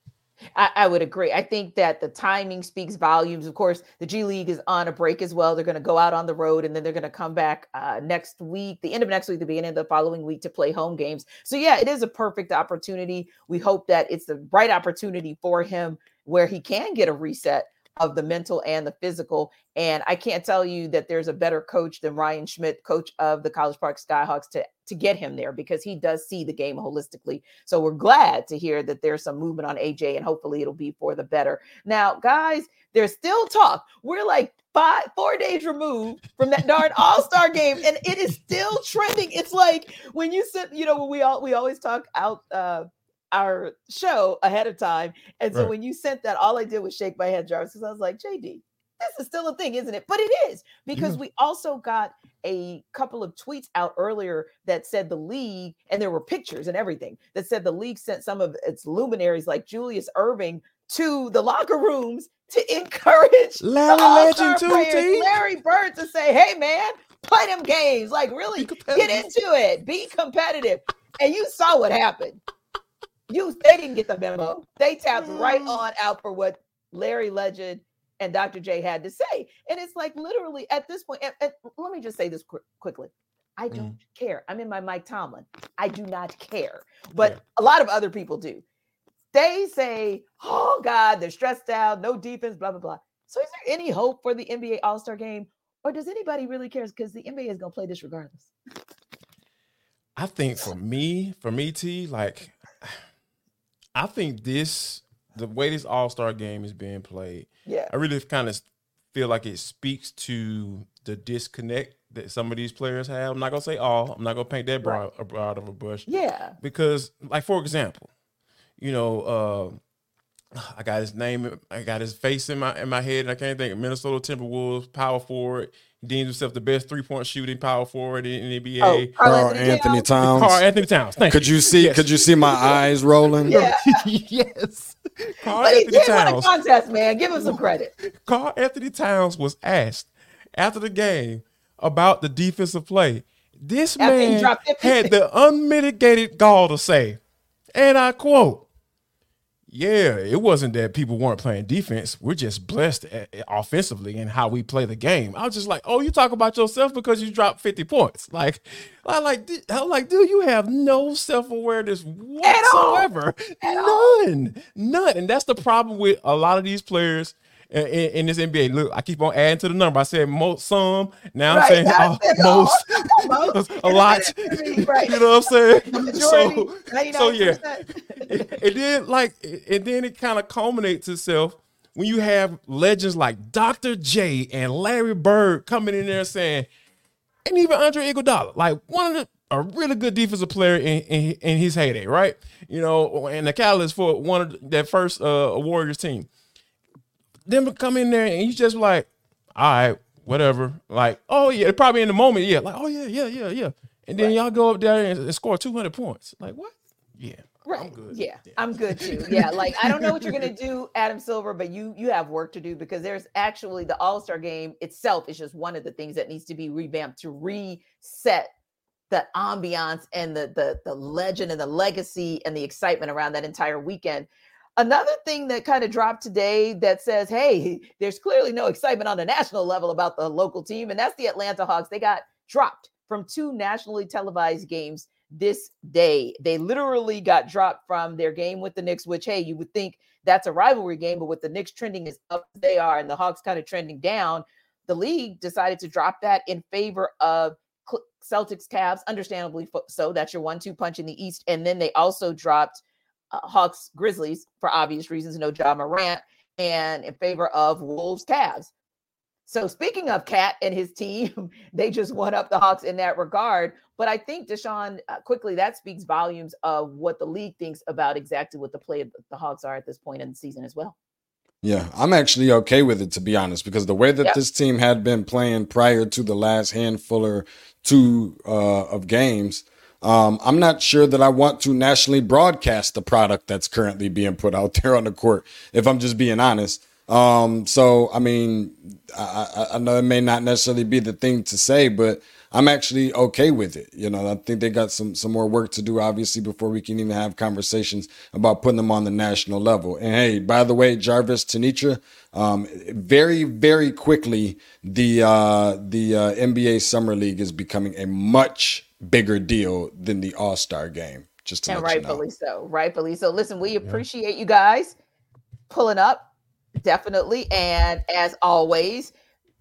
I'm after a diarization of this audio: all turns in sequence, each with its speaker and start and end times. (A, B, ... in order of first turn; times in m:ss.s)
0:00.6-1:12.4 A
1:03.6-1:05.3 B
1:08.6-1:09.3 B
1:13.3-1:28.6 A
1:15.2-1:15.7 B
1:29.3-1:38.5 A
1:40.2-1:43.0 B
1:44.0-1:56.1 B
1:56.1-1:56.6 A
1:56.6-1:58.1 B
1:58.8-1:59.8 B
2:00.6-2:09.1 B
2:08.8-2:10.0 A
2:09.2-2:10.6 C
2:10.2-2:12.8 B
2:11.3-2:13.6 C
2:13.4-2:16.5 B
2:13.5-2:14.0 A
2:15.6-2:17.9 A
2:17.4-2:27.2 B
2:24.0-2:25.1 A
2:27.8-2:28.7 B
2:29.7-2:57.6 B
2:42.4-2:43.1 A
2:43.6-2:44.2 A
2:51.5-2:55.2 A
2:55.9-2:58.5 A
2:58.2-3:06.7 B
3:07.4-3:16.3 B
3:17.5-3:30.5 B
3:27.7-3:38.5 A
3:39.1-4:18.7 A
4:19.5-4:31.0 A
4:31.6-5:12.2 C
5:11.7-5:15.0 A
5:15.7-5:16.3 A
5:16.8-5:19.1 A